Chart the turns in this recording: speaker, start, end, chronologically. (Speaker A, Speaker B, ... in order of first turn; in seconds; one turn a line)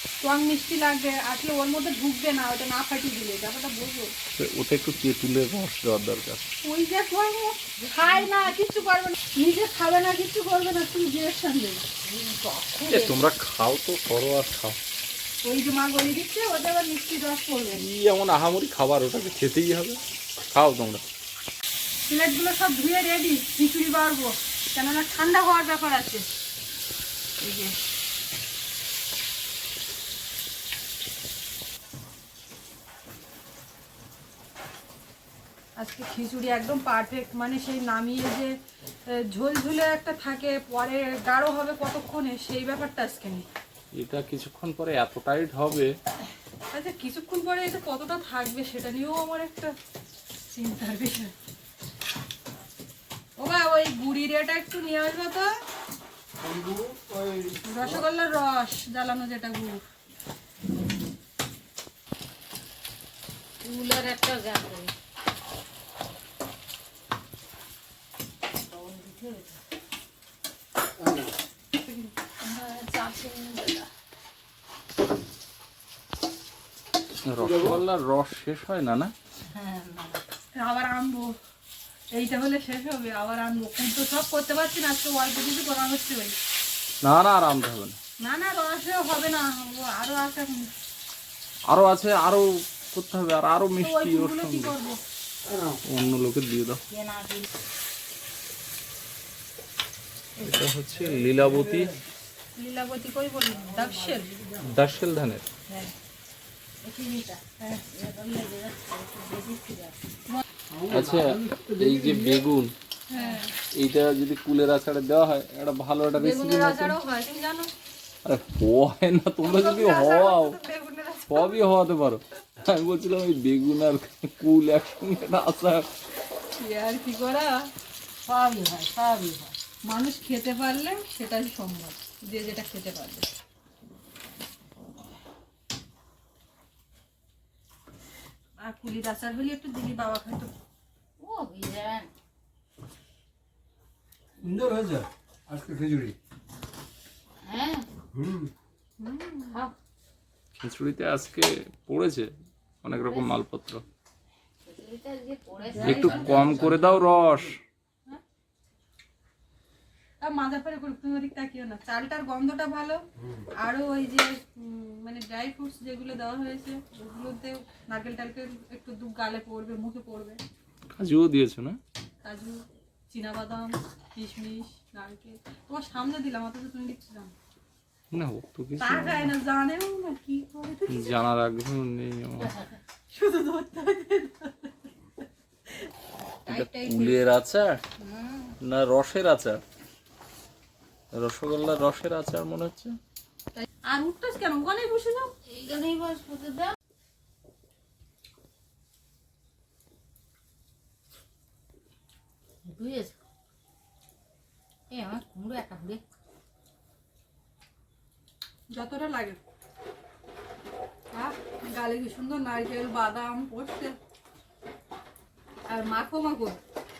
Speaker A: 0.2-4.1
Speaker B: 4.4-6.5
Speaker A: 6.6-11.8
Speaker C: 7.8-8.8
Speaker C: 12.0-13.2
Speaker B: 12.9-14.8
Speaker A: 15.4-17.8
Speaker B: 17.7-21.0
Speaker A: 22.1-26.3
Speaker A: 27.4-27.7
Speaker A: 35.8-38.5
Speaker A: 39.3-43.5
Speaker B: 44.0-45.9
Speaker A: 46.7-49.7
Speaker A: 50.5-51.3
Speaker A: 53.4-55.5
Speaker D: 56.4-58.0
Speaker A: 57.6-59.8
Speaker C: 63.6-64.9
Speaker C: 68.6-69.6
Speaker D: 71.0-71.3
Speaker C: 72.5-73.9
Speaker B: 77.2-79.1
Speaker D: 77.4-77.8
Speaker C: 79.5-80.2
Speaker A: 80.5-81.3
Speaker A: 82.1-86.4
Speaker B: 87.0-88.0
Speaker A: 88.2-90.7
Speaker B: 91.7-94.7
Speaker A: 93.8-95.0
Speaker D: 95.5-95.8
Speaker B: 95.9-96.8
Speaker C: 96.9-97.5
Speaker B: 100.4-101.9
Speaker D: 101.0-102.0
Speaker A: 102.6-104.3
Speaker D: 103.9-104.6
Speaker B: 104.6-105.5
Speaker C: 106.8-110.0
Speaker A: 107.6-107.8
Speaker D: 110.7-112.4
Speaker B: 110.9-112.8
Speaker A: 113.1-113.5
Speaker C: 113.2-113.4
Speaker B: 113.7-117.0
Speaker A: 116.2-117.7
Speaker B: 118.2-120.6
Speaker A: 119.4-121.7
Speaker B: 121.3-125.9
Speaker A: 126.6-127.7
Speaker C: 128.3-129.6
Speaker A: 129.8-133.3
Speaker A: 138.6-140.5
Speaker C: 141.2-142.1
Speaker D: 144.4-146.2
Speaker C: 147.4-147.9
Speaker D: 148.1-148.5
Speaker A: 149.0-149.6
Speaker C: 149.5-149.8
Speaker B: 150.6-152.3
Speaker B: 152.8-153.8
Speaker C: 154.7-156.7
Speaker A: 155.7-156.6
Speaker B: 155.8-157.6
Speaker D: 156.0-157.5
Speaker A: 160.2-170.4
Speaker B: 170.9-171.8
Speaker A: 172.2-177.3
Speaker B: 178.1-179.3
Speaker A: 178.8-181.2
Speaker B: 180.9-182.5
Speaker C: 182.4-182.8
Speaker A: 183.1-184.9
Speaker A: 186.5-187.2
Speaker B: 186.5-187.8
Speaker C: 188.0-188.6
Speaker B: 188.6-189.6
Speaker B: 191.1-193.0
Speaker A: 193.6-195.3
Speaker C: 195.5-196.8
Speaker C: 202.7-203.2
Speaker C: 204.9-206.1
Speaker A: 208.7-209.4
Speaker A: 211.1-214.0
Speaker A: 215.7-216.6